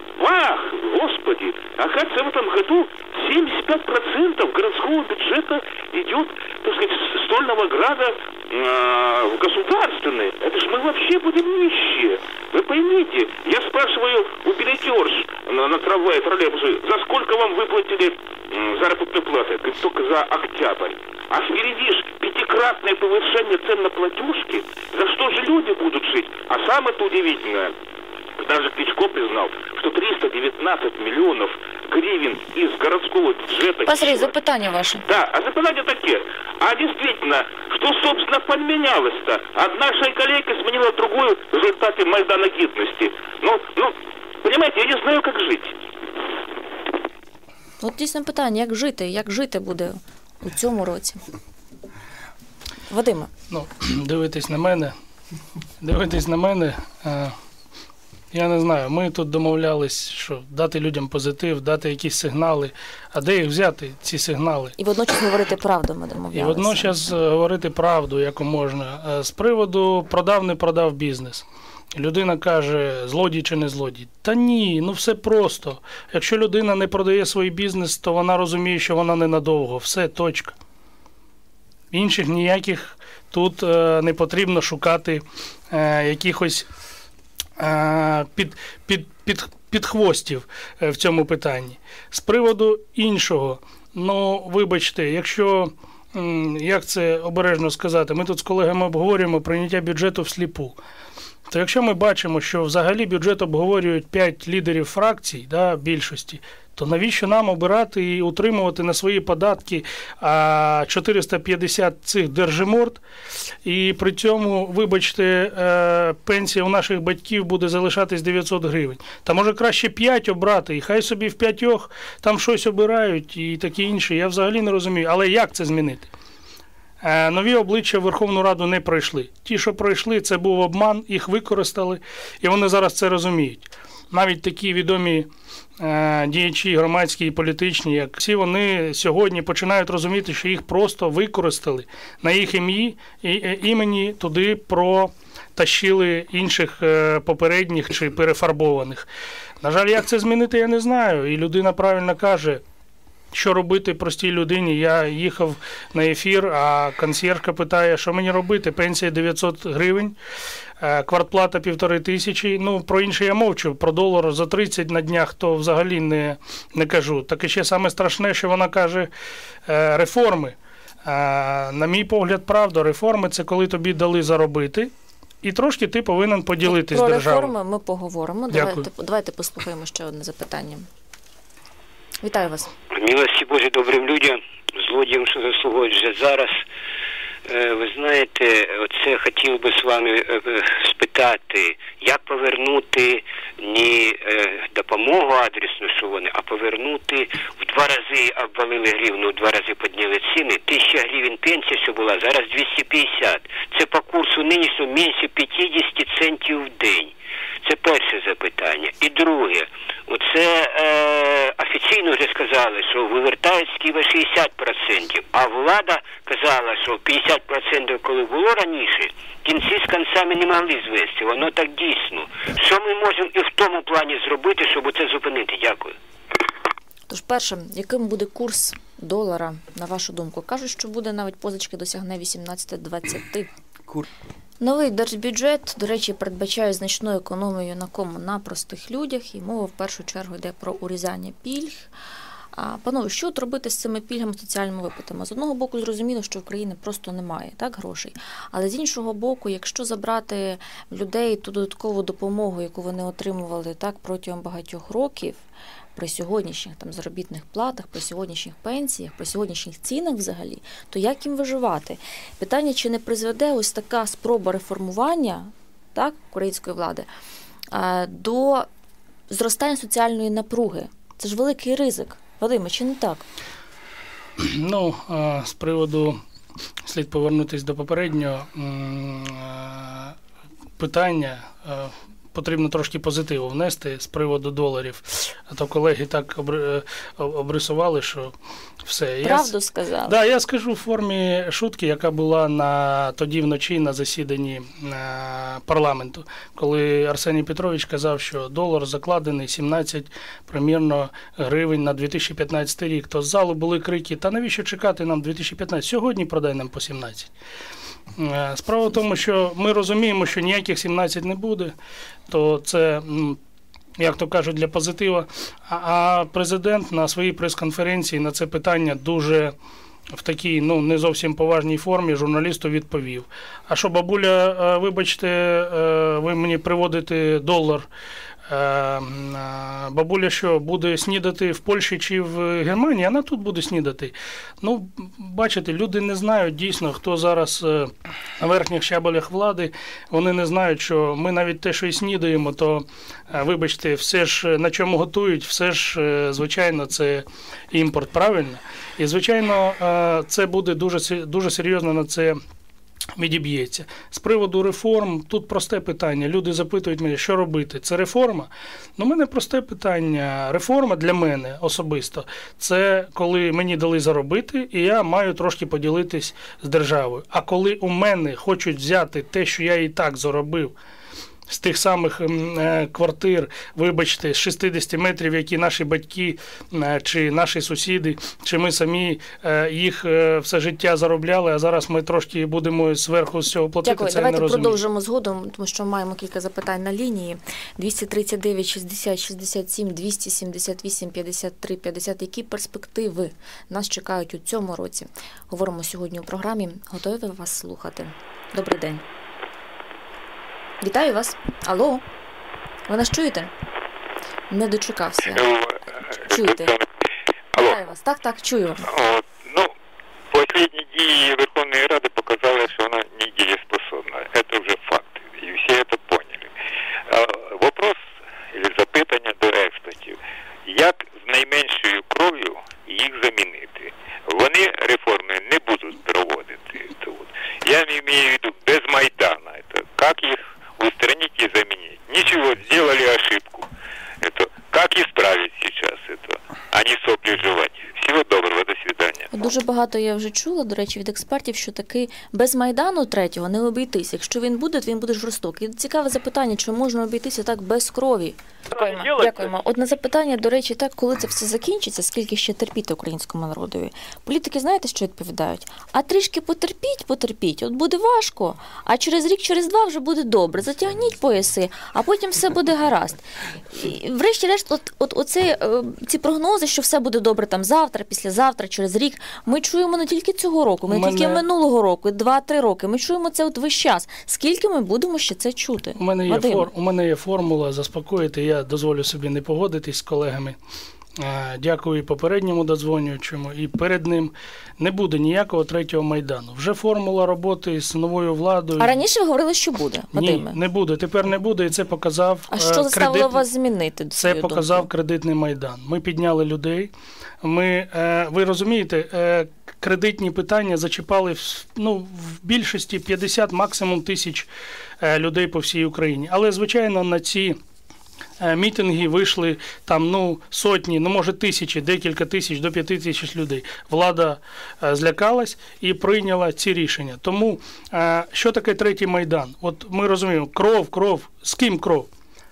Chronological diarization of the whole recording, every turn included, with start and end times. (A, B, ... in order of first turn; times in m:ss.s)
0:00.2-0:27.8 A
0:28.4-0:34.3 A
0:33.8-0:35.0 B
0:35.0-0:45.7 A
0:47.8-0:51.2 B
0:52.9-0:53.3 B
0:53.5-0:54.9 C
0:55.8-0:57.4 C
0:58.3-1:04.7 C
1:04.8-1:07.1 B
1:06.3-1:20.6 C
1:21.9-1:26.7 C
1:27.6-1:40.8 C
1:41.5-1:53.0 C
1:53.6-2:06.1 C
2:07.0-2:29.1 C
2:29.6-2:32.6 C
2:33.3-2:40.2 C
2:40.8-2:49.1 C
2:49.6-2:54.9 C
2:55.4-2:57.5 C
2:56.6-3:00.9 B
2:58.5-2:58.9 C
3:02.2-3:02.7 B
3:02.9-3:06.6 D
3:07.4-3:45.9 D
3:47.1-3:53.5 B
3:54.6-4:01.9 B
4:02.5-4:15.4 B
4:15.9-4:27.1 B
4:27.7-4:28.7 B
4:29.3-4:33.2 B
4:34.4-4:36.2 C
4:36.8-4:40.2 C
4:40.8-4:49.5 C
4:49.2-4:50.2 B
4:50.0-5:07.3 C
5:08.2-5:11.8 C
5:12.3-5:13.4 C
5:14.0-5:19.5 C
5:20.1-5:27.9 C
5:28.4-5:52.4 C
5:53.2-6:10.7 C
6:11.5-6:24.8 C
6:23.8-6:39.0 B
6:40.8-6:42.0 B
6:42.9-6:43.5 B
6:44.5-6:45.4 B
6:45.3-6:46.9 E
6:46.3-6:46.7 B
6:47.6-6:48.8 B
6:48.9-6:49.7 E
6:50.3-6:56.5 E
6:57.1-7:13.7 E
7:14.2-7:19.3 E
7:19.3-7:56.7 B
7:50.9-7:51.4 C
7:56.0-8:00.6 C
8:01.2-8:09.0 C
8:08.8-8:10.6 B
8:10.1-8:13.4 C
8:12.5-8:14.9 B
8:14.2-8:24.5 C
8:25.0-8:27.6 C
8:28.4-8:42.1 C